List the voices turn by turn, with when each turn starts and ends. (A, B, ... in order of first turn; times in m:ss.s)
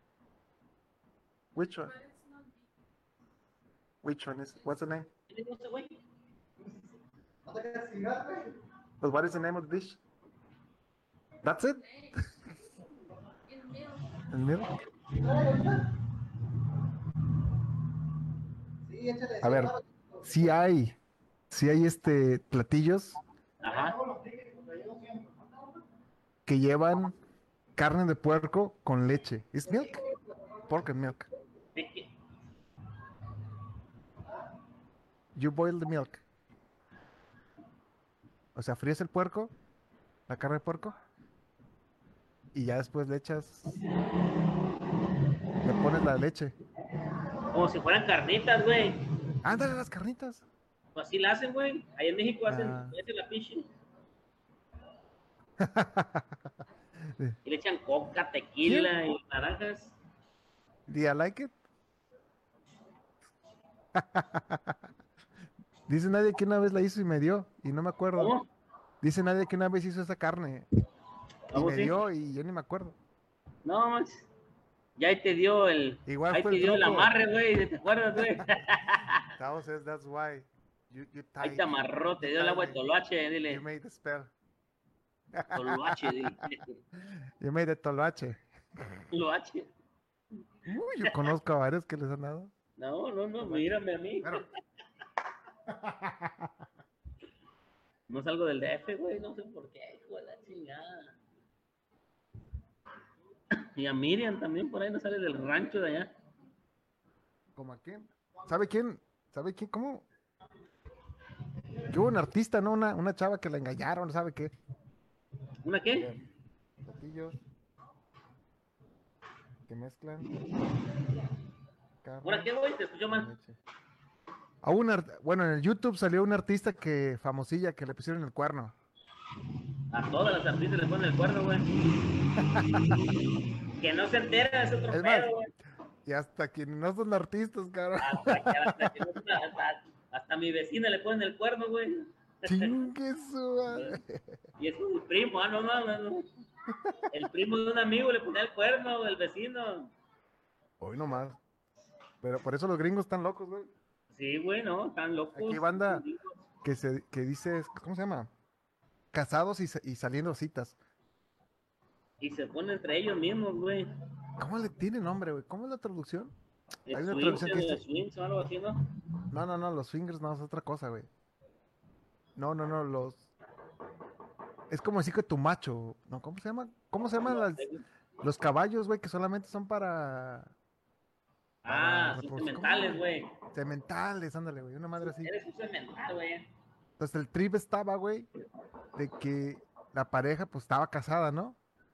0:01.5-0:02.1 A
0:04.0-0:05.1 A
0:05.3-0:06.0 B
0:07.4-0:08.5 C
0:09.0-0:10.0 A
0:11.4-0:12.3 A
0:14.3-0:14.7 A
0:15.2-0:15.8 C
0:18.8-0:20.2 C
0:19.4-0:21.0 A
0:21.5-0:23.2 A
0:23.6-0:24.0 B
0:24.4-0:25.1 C
0:26.4-0:27.1 A
0:27.8-0:30.0 A
0:30.7-0:31.3 A
0:31.7-0:32.1 B
0:35.3-0:36.2 A
0:38.5-0:39.5 A
0:40.3-0:41.0 A
0:42.5-0:43.8 A
0:45.6-0:46.5 A
0:47.5-0:49.1 B
0:49.4-0:50.4 A
0:50.9-0:53.7 B
0:52.5-0:52.9 A
0:55.6-0:56.5 A
0:57.0-0:57.4 A
0:57.4-1:00.0 B
0:58.6-0:58.9 A
1:00.9-1:01.5 A
1:03.9-1:04.8 A
1:05.9-1:08.3 A
1:08.2-1:08.5 B
1:09.0-1:10.7 A
1:11.5-1:11.9 B
1:11.5-1:13.0 A
1:13.6-1:14.3 B
1:15.0-1:19.3 B
1:16.1-1:17.1 A
1:19.4-1:22.8 A
1:21.4-1:23.6 B
1:23.4-1:24.3 A
1:25.3-1:26.5 A
1:25.5-1:26.8 B
1:27.4-1:29.0 A
1:29.1-1:29.7 B
1:30.6-1:32.5 A
1:32.8-1:34.5 B
1:33.4-1:33.7 A
1:35.7-1:36.6 A
1:38.1-1:41.2 B
1:43.6-1:46.1 B
1:47.5-1:50.1 A
1:51.9-1:54.5 A
1:55.6-1:56.1 B
1:56.0-1:56.2 A
1:56.8-1:57.4 A
1:59.7-2:00.4 A
2:02.0-2:02.5 A
2:02.2-2:03.3 B
2:03.1-2:03.6 A
2:04.6-2:08.7 A
2:09.9-2:11.7 B
2:12.4-2:13.0 A
2:13.8-2:15.5 B
2:14.9-2:15.3 A
2:16.0-2:19.1 A
2:18.0-2:22.8 B
2:22.4-2:24.4 A
2:23.7-2:24.0 B
2:24.6-2:26.3 B
2:26.7-2:27.1 A
2:27.1-2:29.9 B
2:30.8-2:31.4 A
2:32.2-2:33.7 A
2:34.1-2:36.4 B
2:35.3-2:36.0 A
2:36.6-2:38.3 A
2:39.1-2:40.8 A
2:42.2-2:43.9 B
2:44.4-2:46.3 A
2:46.9-2:48.8 B
2:46.9-2:47.8 A
2:49.3-2:51.1 A
2:52.4-2:53.3 A
2:54.7-2:57.7 A
2:57.1-2:57.8 B
2:58.2-3:00.5 A
3:01.6-3:03.3 B
3:01.7-3:05.3 A
3:05.0-3:06.5 B
3:07.0-3:08.3 A
3:08.9-3:11.6 A